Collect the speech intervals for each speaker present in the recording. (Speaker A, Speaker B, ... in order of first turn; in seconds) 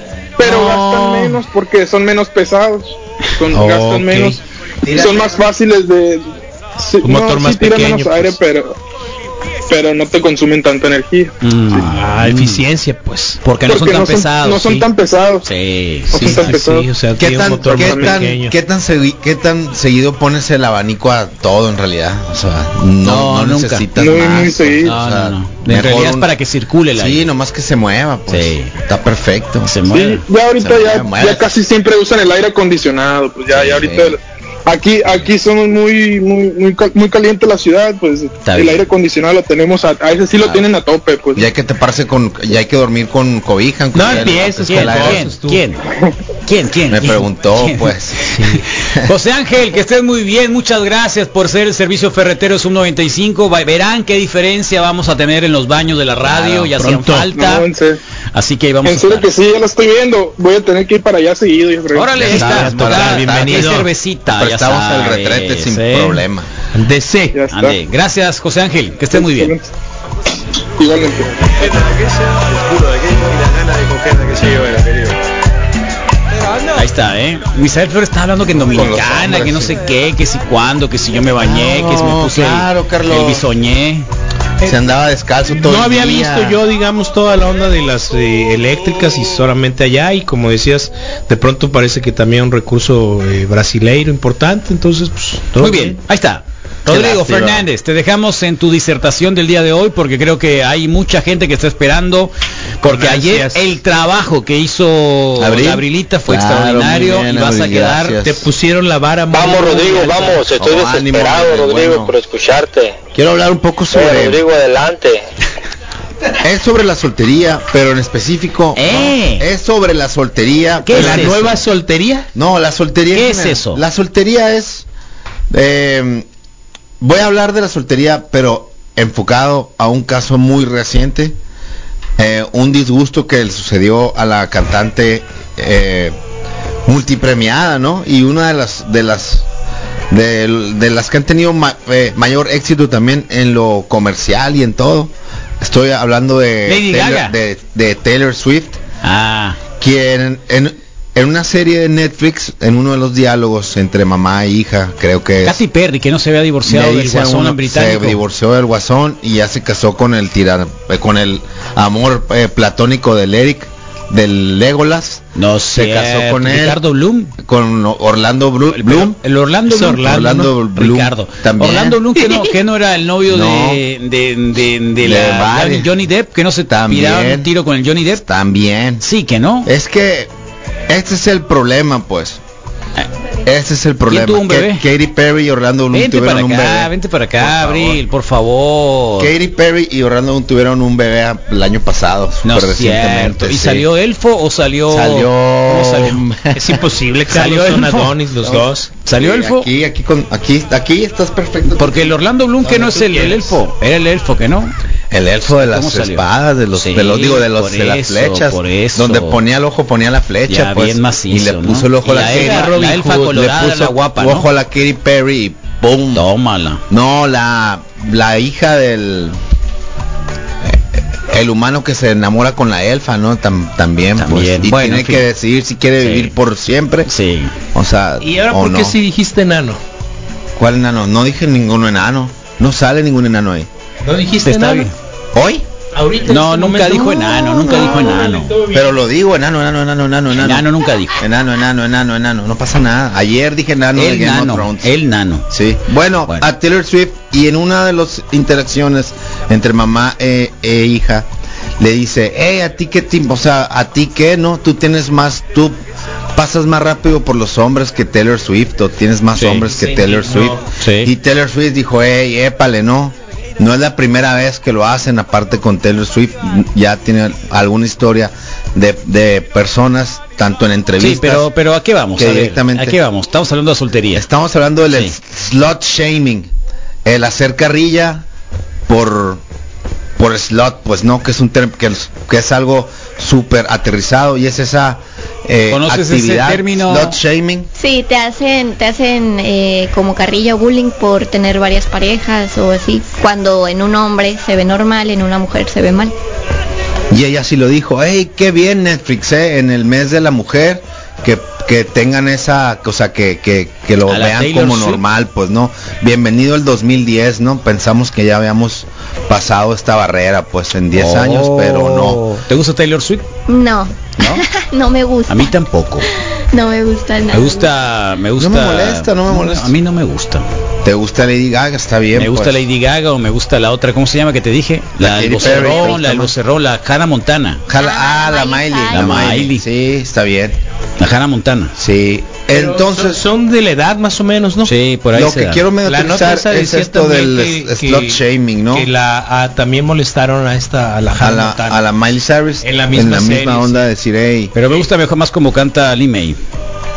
Speaker A: 0.4-4.4, 4.9-8.8, 9.7-11.3, 13.7-15.5, 16.1-16.9, 17.7-18.2, 24.0-24.9, 29.9-41.5, 57.3-58.0, 58.8-62.4, 67.3-67.8, 69.1-69.7, 70.8-71.3
Speaker B: 0.4-1.4, 11.4-12.6, 13.4-14.8, 15.4-16.6, 23.0-23.9, 24.8-27.3, 28.3-28.7, 29.7-30.2, 33.5-34.1, 38.4-38.8, 44.1-45.9, 46.5-57.7, 58.3-59.3, 61.9-66.2, 67.5-69.5, 76.7-84.1, 95.6-108.2, 118.7-119.5, 120.8-121.3, 123.1-123.8, 146.7-147.3, 149.0-149.6, 155.4-158.2, 165.3-167.3, 168.7-178.2, 179.0-179.7, 184.1-184.8, 185.9-189.3, 192.4-196.3, 197.3-198.1, 199.0-199.7, 201.8-204.7, 205.4-206.2, 206.8-209.4, 210.5-214.5, 216.1-216.8, 224.2-225.2, 226.0-226.3, 227.1-227.5, 234.4-234.9, 236.3-238.6, 240.3-241.2, 243.9-245.5, 259.4-259.6, 260.8-261.1, 271.0-274.2, 285.7-287.2, 304.1-305.0, 310.9-313.2, 315.3-316.1, 317.3-320.4, 322.1-327.6, 328.9-329.6, 331.0-331.7, 334.6-335.6, 344.5-346.4
Speaker C: 3.5-4.4, 7.0-8.4, 11.7-13.4, 16.2-18.5, 43.9-45.6, 48.3-48.6, 56.3-57.3, 62.2-63.9, 66.7-67.4, 85.5-96.0, 102.9-103.6, 108.2-110.4, 120.9-122.3, 169.7-170.3, 172.2-172.5, 196.5-198.9, 202.6-203.6, 212.2-213.1, 228.2-229.8, 234.0-234.9, 235.9-238.9, 259.9-260.6, 332.5-334.7, 335.8-338.2, 338.7-341.8, 342.6-343.9
Speaker D: 4.9-5.2, 17.2-26.3, 26.9-29.7, 30.6-31.5, 41.4-45.3, 46.9-48.2, 62.2-63.8, 64.3-66.5, 78.7-79.8, 81.4-83.5, 84.6-86.6, 96.9-97.7, 105.4-108.5, 110.5-112.1, 113.1-114.4, 116.4-121.6, 122.3-124.8, 125.5-126.3, 127.0-131.4, 132.2-136.1, 136.8-139.5, 140.1-148.8, 149.8-155.6, 156.6-166.8, 167.4-169.2, 169.9-172.0, 173.3-173.8, 175.0-175.9, 176.7-177.5, 178.2-179.0, 179.6-180.3, 180.9-182.4, 183.4-188.0, 189.2-193.9, 194.9-196.8, 198.5-202.1, 205.1-216.2, 216.9-219.3, 220.6-227.1, 227.7-229.0, 230.6-233.7, 235.3-235.6, 238.7-244.9, 245.5-251.3, 251.8-255.8, 256.3-271.5, 272.1-273.0, 274.1-276.5, 277.0-278.2, 278.9-279.4, 280.2-287.7, 297.1-312.2, 318.4-319.7, 320.8-322.6, 325.0-326.3, 327.7-330.6, 331.8-333.2, 335.1-338.9, 341.1-344.5
Speaker E: 109.3-113.0, 113.9-115.2
Speaker F: 287.8-296.1, 313.5-315.5, 316.5-317.7, 325.4-325.9, 327.7-329.2